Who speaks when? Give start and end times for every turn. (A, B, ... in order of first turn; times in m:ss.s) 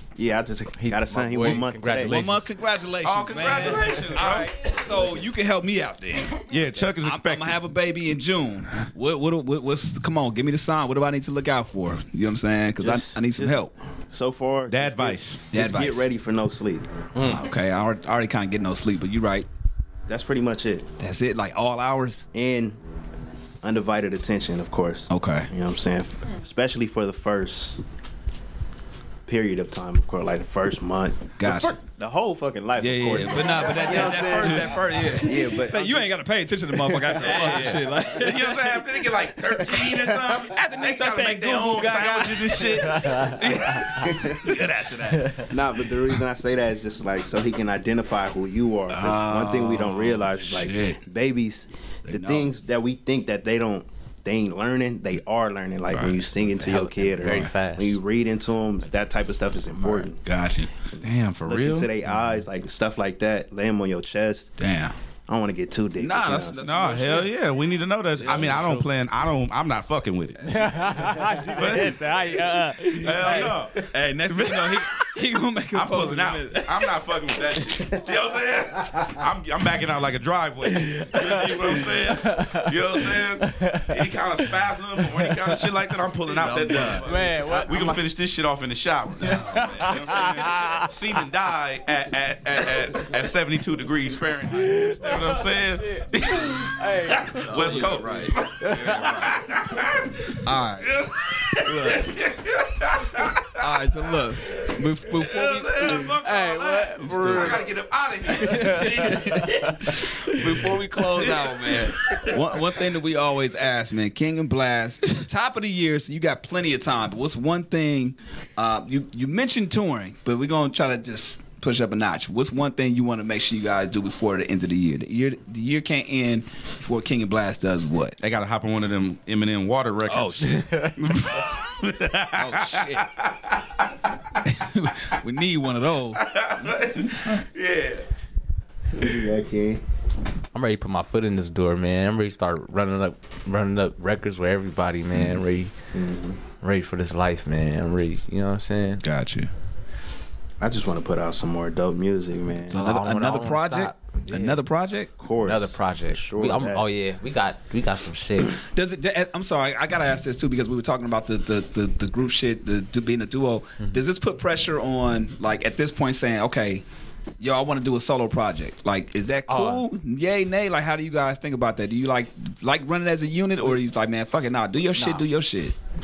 0:00.2-0:02.2 A
0:00.8-0:02.5 B
0:01.4-0:13.7 C
0:03.0-0:04.6 D
0:06.5-0:07.6 D
0:12.8-0:16.8 A
0:14.7-0:15.4 D
0:15.5-0:16.1 C
0:17.1-0:17.4 B
0:17.2-0:19.5 C
0:20.1-0:20.8 A
0:21.0-0:22.2 C
0:22.3-0:22.8 A
0:23.6-0:27.8 A
0:25.1-0:25.5 C
0:29.3-0:36.2 A
0:31.4-0:31.8 C
0:32.8-0:46.0 C
0:34.3-0:34.7 D
0:36.7-0:37.2 A
0:37.2-0:43.9 D
0:39.7-0:40.3 A
0:42.8-0:44.1 B
0:44.0-0:44.5 A
0:45.1-0:45.5 B
0:45.5-1:00.2 A
0:48.9-0:51.0 C
0:52.0-0:52.5 C
0:55.9-0:56.2 C
0:56.5-0:58.0 B
0:59.8-1:00.7 C
1:00.9-1:04.5 A
1:01.0-1:01.9 D
1:04.6-1:04.9 C
1:05.3-1:06.7 A
1:06.0-1:07.3 C
1:06.5-1:10.6 D
1:08.2-1:08.9 B
1:08.3-1:08.8 C
1:10.4-1:13.9 B
1:11.5-1:12.0 D
1:12.8-1:15.1 D
1:13.2-1:16.9 C
1:15.7-1:29.4 D
1:20.7-1:25.6 B
1:26.2-1:27.9 C
1:27.0-1:28.0 B
1:27.7-1:28.0 A
1:29.2-1:30.8 C
1:29.2-1:30.9 B
1:30.7-1:43.6 D
1:32.7-1:33.0 B
1:34.5-1:37.9 B
1:37.3-1:39.4 C
1:38.4-1:39.2 B
1:40.4-1:41.0 C
1:41.6-1:42.1 C
1:43.5-1:46.1 C
1:44.5-1:52.4 D
1:45.8-1:47.6 B
1:47.0-1:47.6 C
1:48.3-1:49.9 B
1:48.4-2:08.2 C
2:08.2-2:13.8 D
2:10.1-2:10.5 C
2:10.4-2:11.5 B
2:12.4-2:13.1 C
2:14.4-2:16.2 C
2:16.2-2:18.0 D
2:17.0-2:17.4 C
2:18.9-2:19.8 A
2:20.5-2:25.7 B
2:25.9-2:26.4 A
2:26.6-2:29.0 B
2:29.0-2:29.5 C
2:30.6-2:32.9 A
2:32.6-2:35.1 C
2:32.7-2:34.6 B
2:35.2-2:36.8 A
2:35.4-2:38.6 B
2:38.5-2:46.8 C
2:47.4-2:55.7 C
2:49.5-2:49.8 B
2:55.0-2:55.2 B